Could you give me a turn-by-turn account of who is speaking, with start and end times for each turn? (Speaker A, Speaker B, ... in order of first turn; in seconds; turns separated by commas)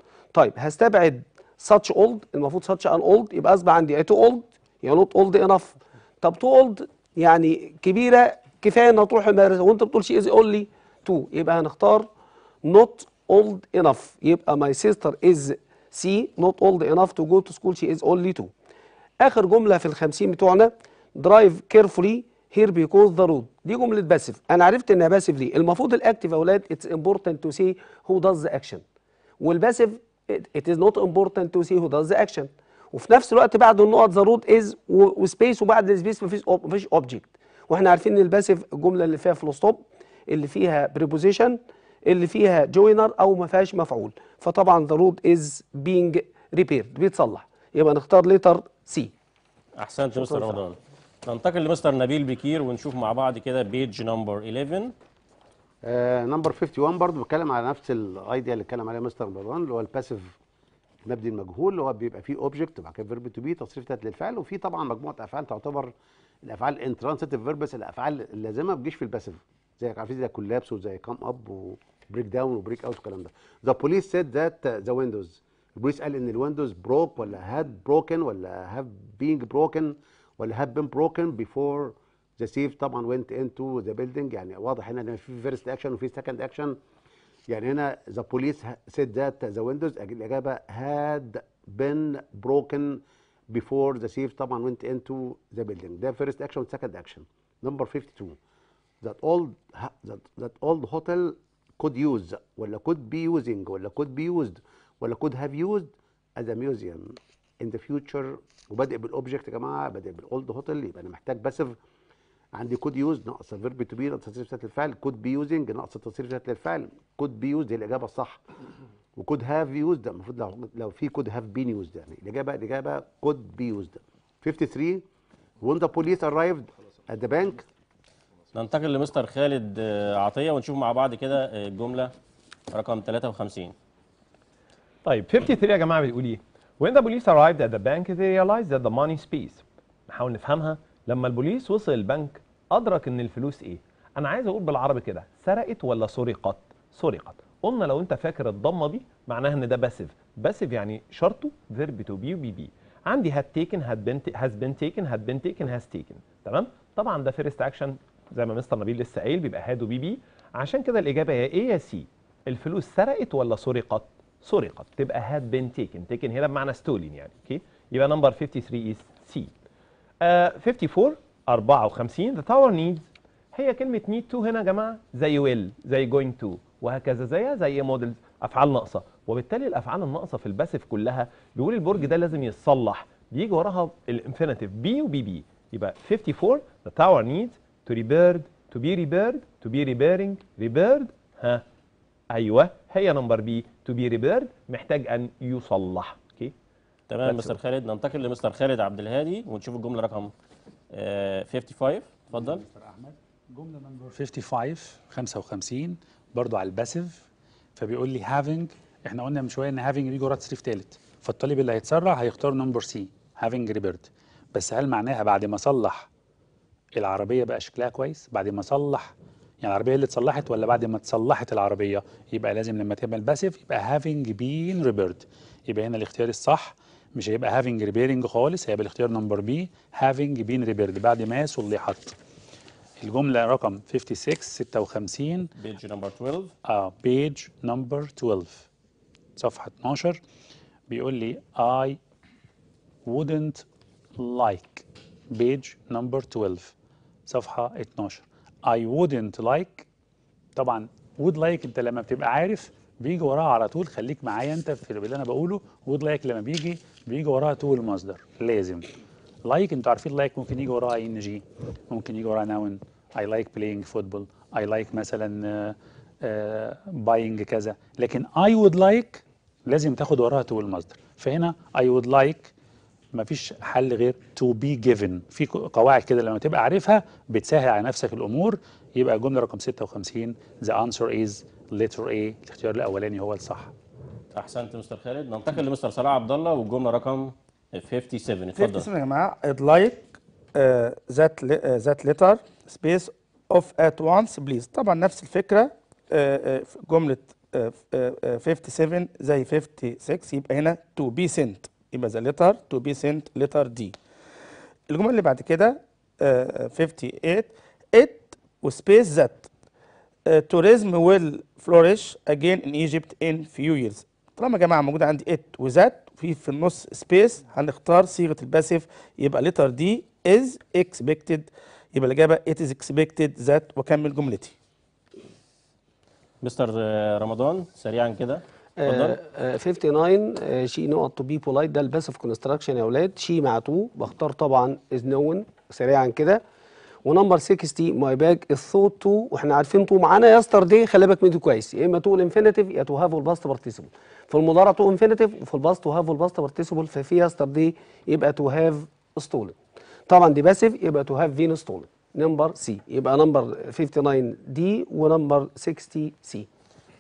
Speaker A: 0.3-12.1, Speaker A: 12.6-18.5, Speaker A: 19.2-28.8, Speaker A: 29.4-49.1, Speaker B: 49.8-54.9, Speaker A: 50.1-50.6, Speaker C: 55.8-60.4, Speaker C: 61.0-65.9, Speaker C: 66.4-86.8, Speaker C: 87.5-98.4, Speaker C: 99.0-111.8, Speaker C: 112.5-118.4, Speaker C: 119.2-125.0, Speaker C: 125.6-127.7, Speaker B: 128.5-132.1, Speaker B: 132.7-133.8, Speaker D: 135.1-169.5, Speaker D: 170.2-191.6, Speaker D: 192.3-196.5, Speaker B: 197.1-200.3, Speaker D: 197.2-197.6, Speaker B: 200.9-202.6, Speaker E: 202.3-207.2, Speaker E: 207.8-216.1, Speaker E: 216.9-232.2, Speaker E: 233.0-235.5, Speaker B: 235.6-236.5, Speaker E: 236.7-238.7, Speaker E: 239.4-240.2, Speaker E: 240.9-242.0, Speaker E: 243.1-243.7, Speaker E: 244.2-246.7, Speaker E: 247.3-249.9, Speaker E: 250.6-258.9, Speaker E: 259.4-272.5, Speaker E: 273.1-283.7, Speaker B: 284.3-288.9, Speaker F: 288.6-304.0, Speaker F: 304.9-309.5, Speaker F: 310.3-324.5, Speaker B: 326.4-329.2, Speaker A: 328.8-336.4, Speaker A: 337.1-349.6, Speaker A: 350.1-356.5